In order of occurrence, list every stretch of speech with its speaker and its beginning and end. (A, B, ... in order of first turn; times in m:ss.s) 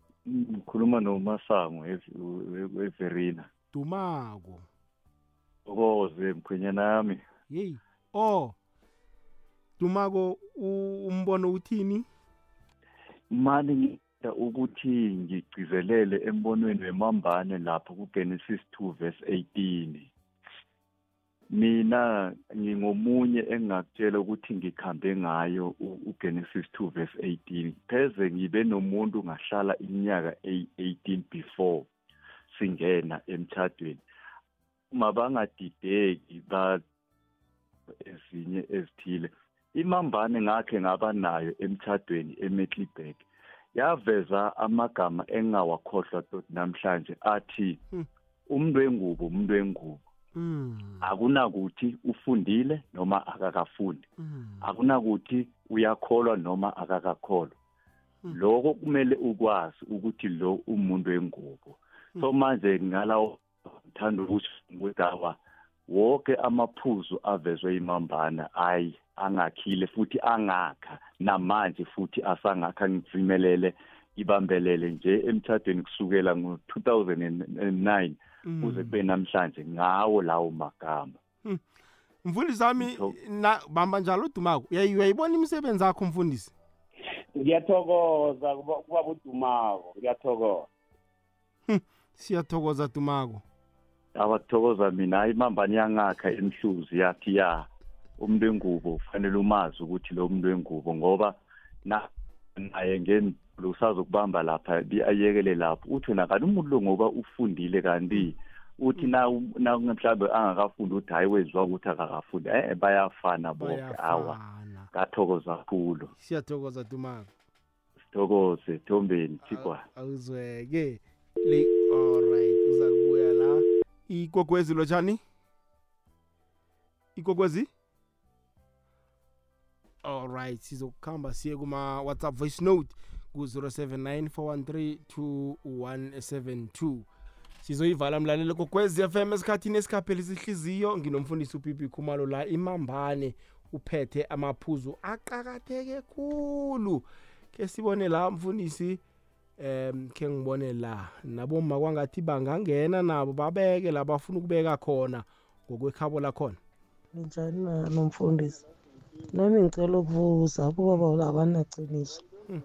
0:00.3-0:03.5 A
0:03.7-0:04.7 B
0:05.7-0:07.2 A
0:07.5-0:08.6 B
0:09.8-0:12.0 B
0:13.3-0:20.1 A
0:21.5-0:31.9 A
0:32.5-0:34.0 A
0:34.9-0:36.8 A
0:38.0-0:47.8 A
0:48.5-0:50.0 A
0:50.4-0:51.0 B
0:51.0-0:54.1 A
0:54.2-0:54.6 B
0:54.6-0:57.6 A
0:58.3-1:21.2 A
1:18.4-1:18.9 B
1:22.2-1:26.5 B
1:22.8-1:23.2 A
1:27.4-1:30.7 C
1:31.7-1:33.4 B
1:34.1-1:54.4 A
1:53.6-1:54.9 B
1:54.9-1:56.1 A
1:56.1-1:57.3 B
1:58.1-1:59.8 A
1:59.4-2:05.2 B
2:07.2-2:07.7 B
2:10.0-2:17.1 B
2:17.6-2:29.0 B
2:29.6-2:36.6 B
2:37.1-2:38.6 D
2:39.3-2:42.2 D